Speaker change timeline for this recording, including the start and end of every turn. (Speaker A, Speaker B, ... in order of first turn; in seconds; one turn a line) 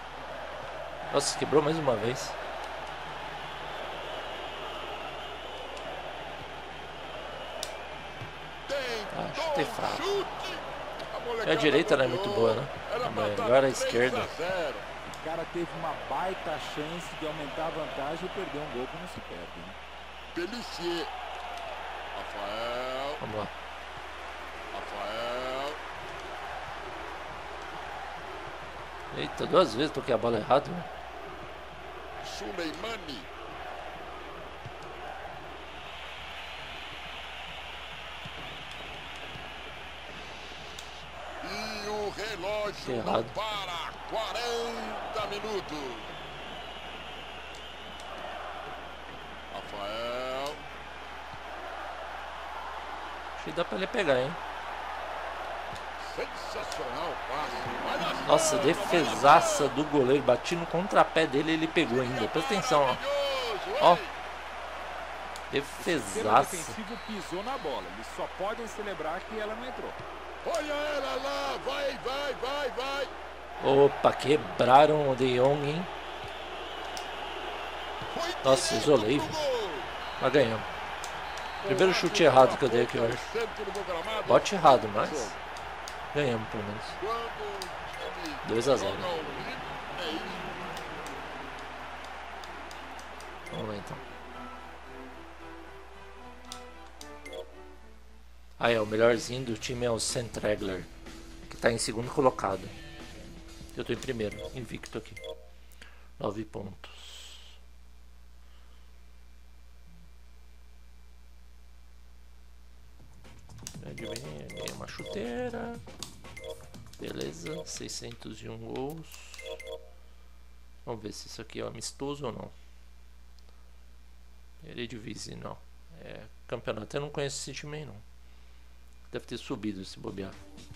Speaker A: 1.1-2.4
Speaker B: 8.7-14.8
Speaker A: 9.1-10.1
Speaker A: 11.4-14.3
Speaker C: 15.1-19.8
Speaker B: 20.3-21.1
Speaker B: 22.1-23.2
Speaker A: 23.2-23.5
Speaker B: 24.7-25.8
Speaker A: 29.1-30.9
Speaker B: 32.2-33.3
Speaker B: 41.4-46.1
Speaker A: 42.7-43.3
Speaker B: 49.5-50.6
Speaker A: 53.4-54.4
Speaker B: 56.0-59.7
Speaker A: 58.2-63.0
Speaker B: 61.9-64.1
Speaker A: 65.5-66.8
Speaker C: 65.8-70.0
Speaker B: 70.4-73.1
Speaker A: 73.6-75.9
Speaker B: 78.1-79.9
Speaker A: 78.4-79.3
Speaker A: 80.2-80.7
Speaker B: 81.6-85.4
Speaker A: 81.7-83.3
Speaker A: 84.2-85.3
Speaker A: 86.1-87.0
Speaker B: 87.0-90.5
Speaker A: 88.4-89.1
Speaker A: 93.5-94.0
Speaker A: 98.6-100.9
Speaker A: 101.5-102.7
Speaker A: 103.7-105.2
Speaker A: 106.2-107.6
Speaker A: 113.8-115.8
Speaker A: 117.0-119.6
Speaker A: 120.8-122.5
Speaker A: 124.6-128.0
Speaker A: 129.1-130.4